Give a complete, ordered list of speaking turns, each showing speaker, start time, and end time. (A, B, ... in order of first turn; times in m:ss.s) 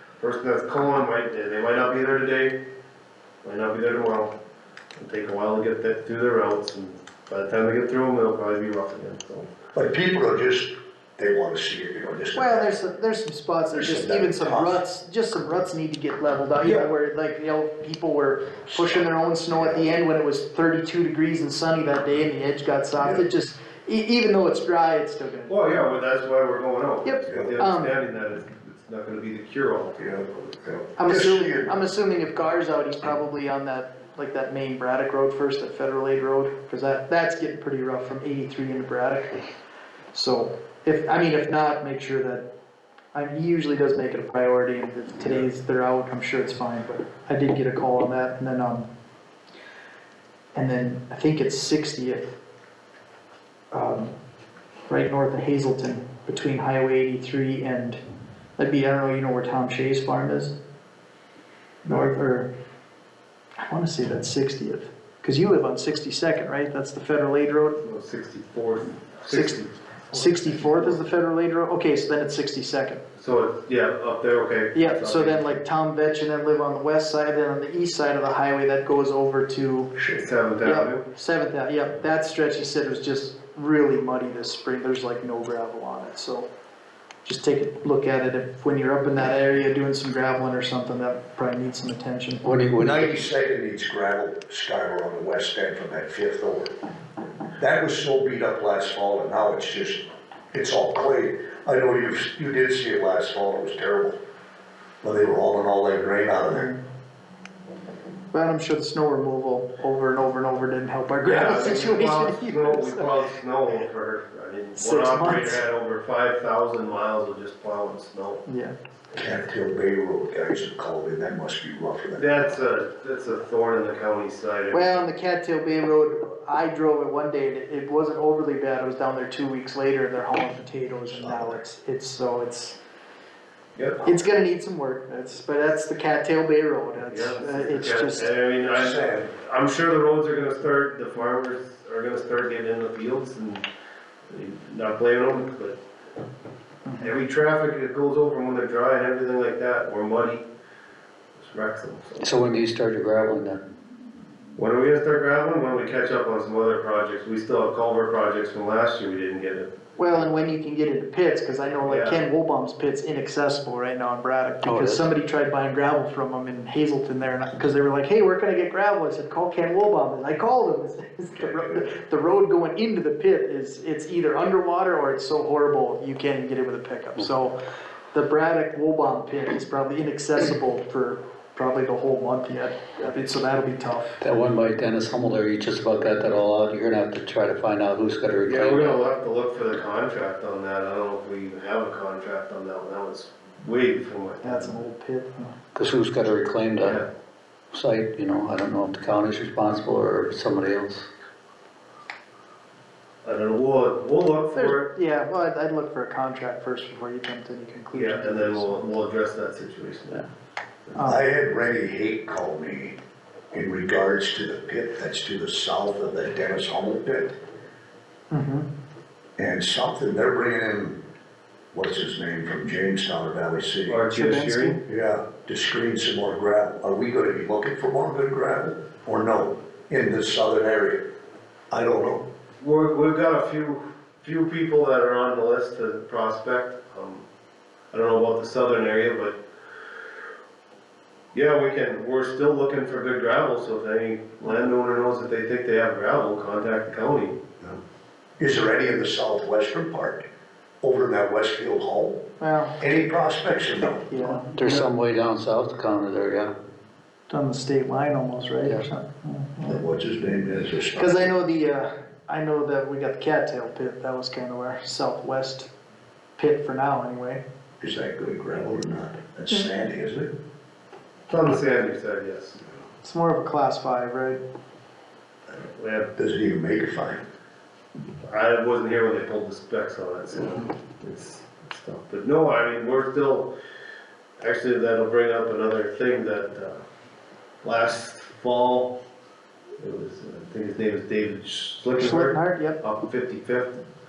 0:00.2-0:02.6 A
0:03.4-0:04.3 A
0:05.0-0:09.5 A
0:09.7-0:12.7 B
0:12.3-0:25.8 C
0:13.7-0:14.8 B
0:16.6-0:16.9 B
0:18.6-0:19.9 B
0:23.0-0:23.2 B
0:25.5-0:30.6 A
0:27.0-0:27.9 C
0:30.0-0:31.8 B
0:31.0-0:39.4 C
0:40.1-0:42.4 C
0:43.1-0:48.9 C
0:50.5-0:52.3 C
0:53.7-0:54.1 C
0:54.9-0:58.0 C
0:58.6-1:00.5 C
1:01.8-1:02.5 C
1:03.6-1:07.8 C
1:07.8-1:11.0 A
1:09.3-1:09.6 C
1:10.1-1:13.0 C
1:13.2-1:15.5 A
1:14.7-1:19.9 C
1:19.9-1:20.3 B
1:20.2-1:21.0 A
1:20.6-1:26.5 C
1:27.2-1:32.4 C
1:32.4-1:33.1 D
1:32.8-1:36.7 B
1:37.6-1:44.2 B
1:45.0-1:46.7 B
1:46.5-1:46.8 C
1:48.3-1:53.2 C
1:51.2-1:58.4 A
1:54.8-1:55.6 C
1:58.4-1:58.7 C
1:59.1-2:02.4 B
2:02.2-2:05.0 A
2:04.7-2:12.8 C
2:11.1-2:11.6 B
2:13.8-2:14.1 A
2:14.0-2:18.3 C
2:17.0-2:23.6 A
2:18.7-2:19.3 B
2:24.3-2:25.8 A
2:27.0-2:30.4 A
2:31.4-2:32.3 A
2:32.2-2:33.6 D
2:34.6-2:39.7 A
2:40.0-2:57.6 C
2:41.8-2:42.2 A
2:44.6-2:45.0 D
2:51.3-2:51.9 B
2:58.1-3:04.2 C
3:04.2-3:09.0 D
3:08.5-3:14.8 A
3:14.4-3:15.5 C
3:15.7-3:17.0 D
3:16.8-3:17.1 A
3:17.7-3:21.1 D
3:23.2-3:24.9 A
3:24.5-3:28.8 C
3:27.9-3:30.3 A
3:31.0-3:31.2 C
3:31.0-3:33.0 B
3:33.5-3:37.4 B
3:38.3-3:38.7 C
3:39.4-3:41.0 B
3:41.7-3:44.1 B
3:43.9-3:44.8 A
3:44.1-3:44.8 C
3:44.8-3:51.0 B
3:51.7-3:52.2 B
3:52.6-3:57.2 A
3:57.9-3:59.4 A
4:01.3-4:07.8 A
4:08.4-4:10.2 B
4:10.8-4:12.2 B
4:12.4-4:12.8 C
4:12.8-4:14.1 B
4:14.0-4:14.5 C
4:14.5-4:16.5 D
4:14.6-4:14.9 A
4:17.3-4:19.8 C
4:19.6-4:21.3 B
4:20.9-4:25.7 C
4:26.4-4:27.4 C
4:27.8-4:30.3 B
4:31.3-4:32.6 A
4:33.0-4:34.4 C
4:35.5-4:36.1 A
4:36.2-4:37.2 B
4:38.2-4:43.5 A
4:44.4-4:46.8 A
4:47.6-4:48.9 A
4:49.8-4:53.8 A
4:52.0-4:52.8 C